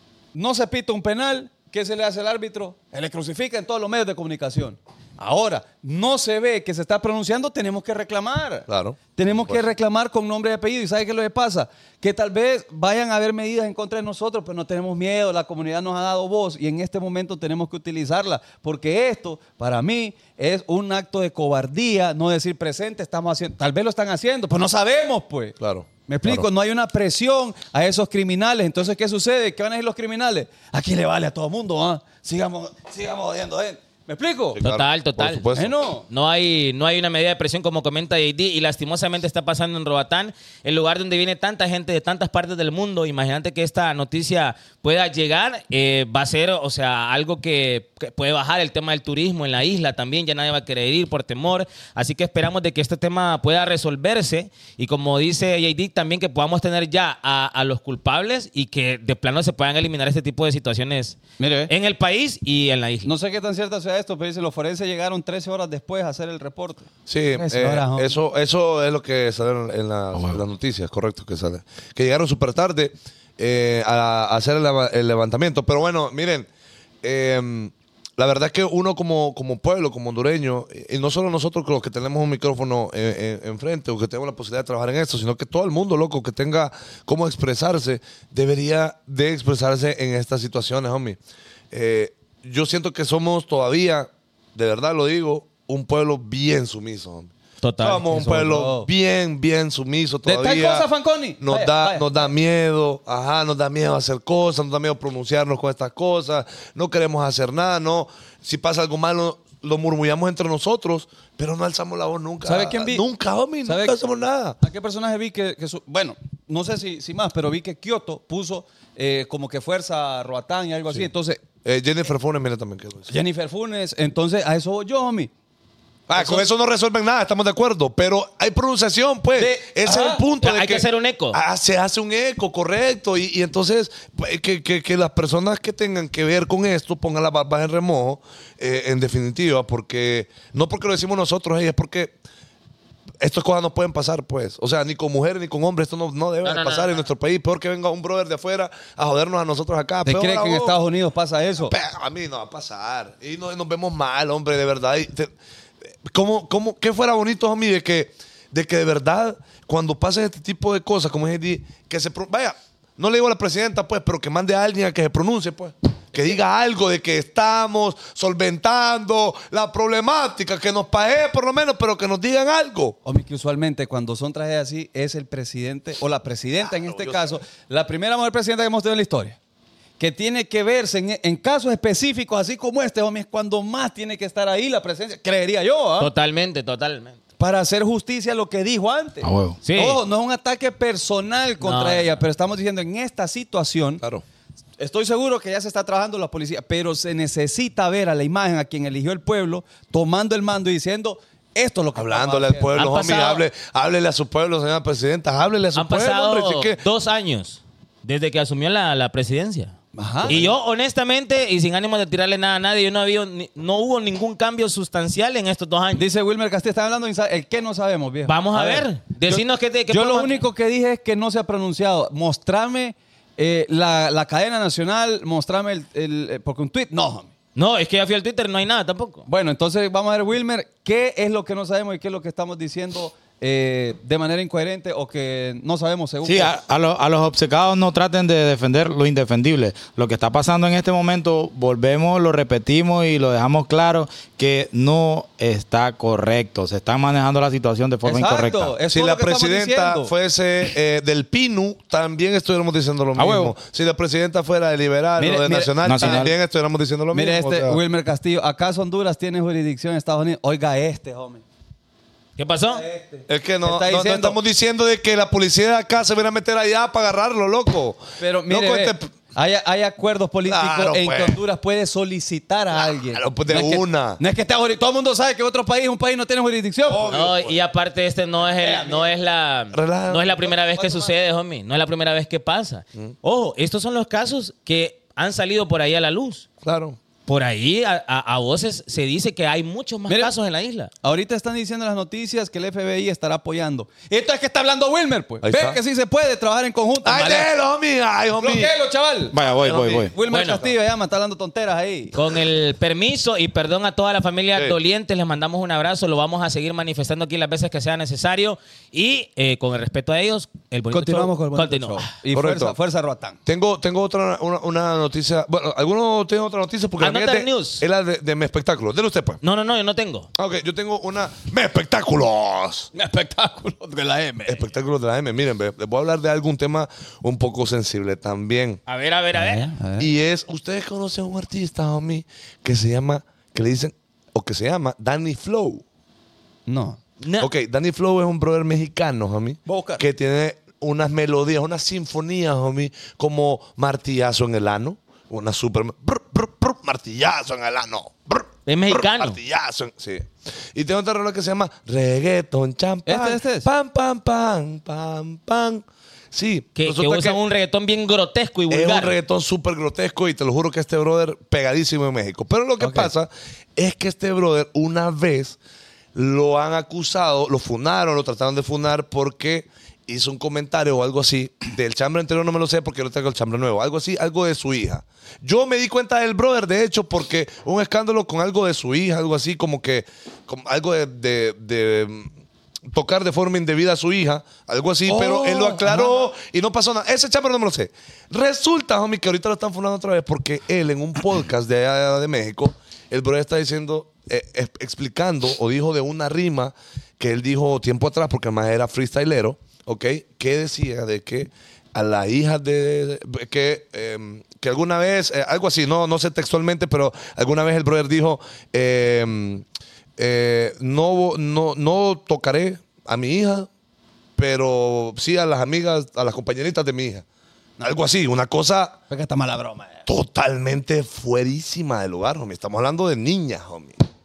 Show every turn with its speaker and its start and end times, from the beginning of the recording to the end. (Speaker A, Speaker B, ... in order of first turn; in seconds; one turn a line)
Speaker A: 0.3-25.6
Speaker B: 8.7-9.6
Speaker B: 25.6-26.5
Speaker A: 26.1-34.6
Speaker B: 34.5-35.7
Speaker C: 34.6-35.5
Speaker A: 35.5-36.0
Speaker C: 36.1-63.1
Speaker A: 61.4-61.7
Speaker A: 63.0-68.1
Speaker B: 67.1-76.5
Speaker B: 77.0-91.2
Speaker B: 91.7-100.9
Speaker C: 97.6-98.1
Speaker A: 98.1-98.9
Speaker A: 100.2-102.3
Speaker B: 101.4-114.6
Speaker A: 112.4-113.0
Speaker A: 113.6-114.0
Speaker A: 114.6-121.4
Speaker B: 121.6-123.1
Speaker A: 123.1-125.3
Speaker B: 126.1-142.2
Speaker A: 126.1-126.5
Speaker A: 129.3-130.2
Speaker C: 130.4-131.4
Speaker B: 143.2-150.8
Speaker C: 146.4-147.0
Speaker A: 150.0-151.7
Speaker B: 151.7-155.3
Speaker B: 156.0-173.0
Speaker A: 173.0-179.4
Speaker B: 176.6-177.4
Speaker A: 180.0-186.1
Speaker C: 186.0-187.2
Speaker A: 187.4-194.0
Speaker D: 189.2-189.6
Speaker C: 189.6-190.0
Speaker C: 191.6-192.2
Speaker A: 194.8-202.8
Speaker B: 201.9-206.8
Speaker C: 202.7-203.4
Speaker C: 205.8-209.7
Speaker A: 209.9-210.4
Speaker C: 210.2-216.0
Speaker A: 215.9-227.3
Speaker C: 218.3-220.4
Speaker C: 227.5-229.2
Speaker A: 229.3-236.5
Speaker D: 236.2-248.7
Speaker A: 248.0-250.1
Speaker B: 248.9-257.8
Speaker D: 253.2-253.5
Speaker A: 255.2-256.3
Speaker D: 255.8-256.3
Speaker A: 257.1-261.4
Speaker C: 262.4-262.8
Speaker A: 262.7-264.4
Speaker B: 263.3-269.1
Speaker A: 268.2-277.1
Speaker B: 270.5-271.4
Speaker B: 272.8-274.2
Speaker B: 276.9-277.6
Speaker C: 277.1-286.4
Speaker A: 278.5-279.1
Speaker B: 279.7-280.3
Speaker A: 280.4-281.1
Speaker B: 286.6-287.0
Speaker C: 287.3-290.9
Speaker A: 290.1-290.3
Speaker A: 291.0-297.5
Speaker B: 295.4-295.8
Speaker B: 297.0-298.7
Speaker A: 298.4-302.1
Speaker D: 299.3-300.1
Speaker C: 300.3-300.6
Speaker C: 302.1-312.1
Speaker A: 310.9-313.4
Speaker B: 312.3-312.8
Speaker B: 313.4-319.4
Speaker C: 317.0-317.8
Speaker C: 319.4-320.3
Speaker B: 320.4-322.9
Speaker A: 322.9-324.6
Speaker B: 324.4-328.8
Speaker C: 328.9-329.7
Speaker A: 329.3-330.1
Speaker B: 330.0-335.8
Speaker A: 336.7-337.0
Speaker C: 337.2-337.5
Speaker B: 337.4-357.4
Speaker A: 339.6-340.0
Speaker C: 348.7-349.4
Speaker A: 353.1-353.7
Speaker C: 356.8-359.1
Speaker B: 358.7-365.6
Speaker A: 362.8-363.1
Speaker B: 366.1-382.3
Speaker B: 382.9-409.6
Speaker A: 385.1-386.3
Speaker B: 410.2-413.7
Speaker B: 414.4-417.2
Speaker B: 417.8-419.0
Speaker A: 419.1-420.0
Speaker B: 420.1-424.0